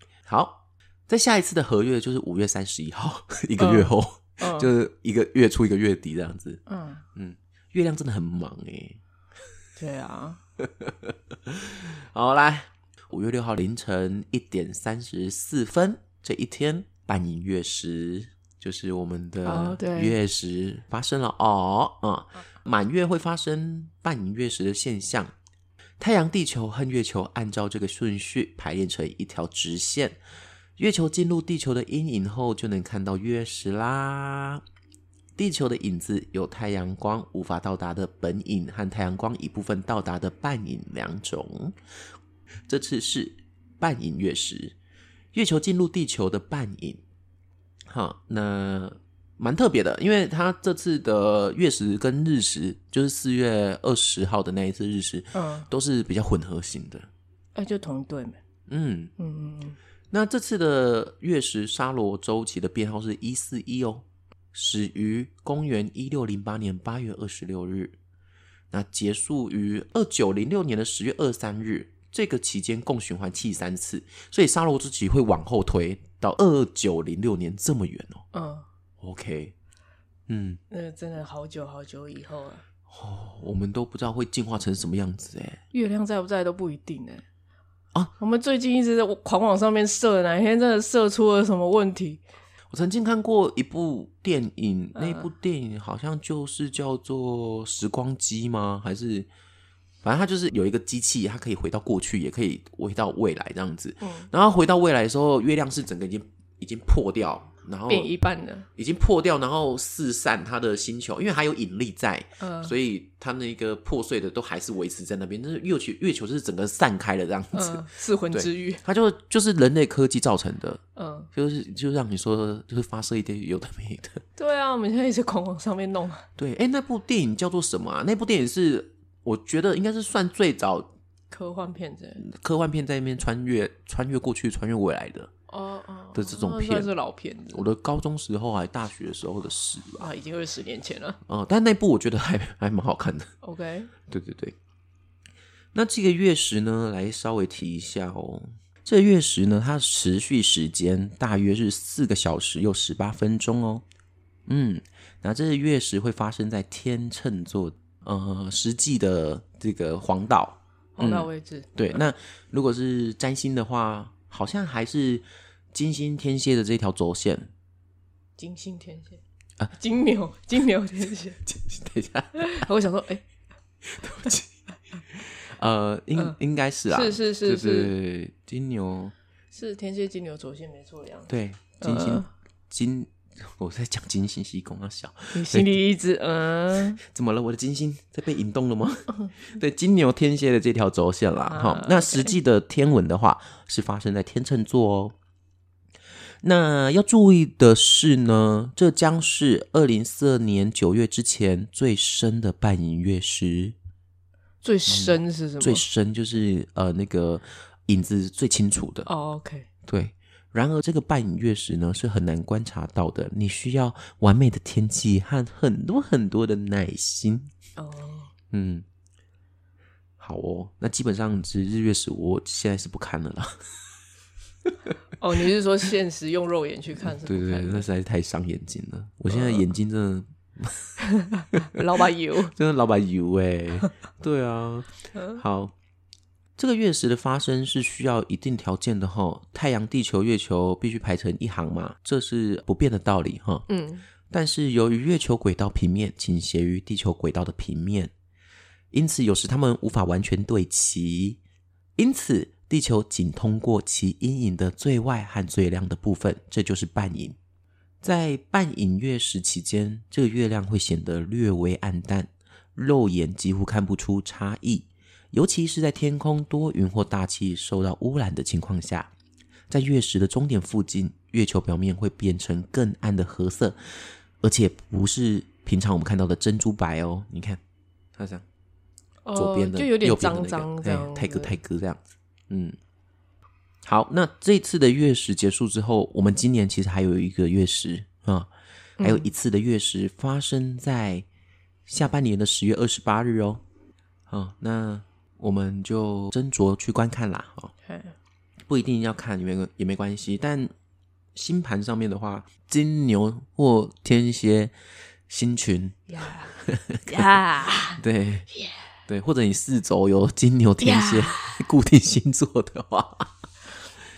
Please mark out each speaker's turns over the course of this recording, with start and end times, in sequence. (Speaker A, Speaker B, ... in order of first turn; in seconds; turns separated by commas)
Speaker A: 0.2-6.6, Speaker B: 3.6-4.7, Speaker B: 6.7-7.0, Speaker A: 7.2-9.0, Speaker B: 9.8-10.4, Speaker A: 10.6-25.3, Speaker B: 19.4-20.1, Speaker A: 26.0-30.2, Speaker A: 30.8-34.6, Speaker A: 35.4-41.8, Speaker A: 42.7-44.8, Speaker A: 45.3-47.0, Speaker A: 47.9-57.1, Speaker B: 55.3-55.7, Speaker B: 57.6-58.4, Speaker A: 58.7-59.1, Speaker B: 59.2-59.8, Speaker A: 60.1-68.0, Speaker A: 68.7-78.2, Speaker B: 78.3-78.7, Speaker A: 79.0-79.5, Speaker A: 80.3-80.6, Speaker B: 80.7-82.6, Speaker A: 82.9-85.6, Speaker B: 85.7-87.2, Speaker B: 88.2-92.2, Speaker A: 92.7-99.3, Speaker B: 95.0-95.3, Speaker A: 100.0-108.1, Speaker B: 104.0-104.3, Speaker B: 107.9-108.7, Speaker A: 108.8-120.8, Speaker B: 112.4-112.7, Speaker B: 117.5-118.8, Speaker B: 121.0-121.3, Speaker A: 121.3-124.2, Speaker B: 124.4-126.3, Speaker A: 126.4-130.9, Speaker B: 131.3-132.2, Speaker A: 132.2-135.3, Speaker B: 135.5-137.7, Speaker A: 136.2-136.9, Speaker A: 137.5-140.1, Speaker B: 140.0-141.2, Speaker A: 141.3-143.3, Speaker B: 143.4-143.9, Speaker A: 144.1-144.6, Speaker A: 145.7-153.8, Speaker A: 154.5-167.5, Speaker B: 161.0-161.7, Speaker B: 168.4-169.2, Speaker B: 169.7-171.4, Speaker A: 171.4-172.6, Speaker B: 172.4-173.2, Speaker A: 173.8-174.5, Speaker A: 175.1-179.1, Speaker B: 176.9-177.9, Speaker B: 179.5-182.3, Speaker A: 181.3-185.8, Speaker B: 185.3-187.0, Speaker A: 187.0-195.2, Speaker B: 191.5-192.3, Speaker A: 196.4-203.8, Speaker B: 204.6-205.8, Speaker A: 204.9-209.1, Speaker B: 209.1-209.7, Speaker A: 209.9-217.5, Speaker B: 217.8-218.3, Speaker A: 218.5-218.8, Speaker A: 220.2-223.6, Speaker B: 225.2-227.9, Speaker A: 227.0-230.9, Speaker B: 229.3-229.7, Speaker B: 231.0-232.5, Speaker A: 232.5-235.7, Speaker B: 235.1-235.4, Speaker A: 236.6-243.7, Speaker B: 243.7-244.0, Speaker A: 244.3-248.1, Speaker A: 248.9-251.4, Speaker A: 252.0-257.4, Speaker A: 258.0-269.1, Speaker A: 269.7-277.6, Speaker A: 278.2-278.4, Speaker B: 279.2-281.6, Speaker A: 279.4-282.8, Speaker A: 283.9-288.5, Speaker B: 289.0-289.3, Speaker A: 289.0-291.3, Speaker A: 291.9-293.6, Speaker A: 294.3-297.7, Speaker B: 297.9-298.1, Speaker A: 298.7-300.7, Speaker A: 301.4-304.7, Speaker A: 305.3-306.0, Speaker B: 306.1-306.6, Speaker A: 306.6-307.3, Speaker B: 307.1-308.8, Speaker A: 308.0-308.5, Speaker A: 309.1-313.3, Speaker B: 310.8-311.6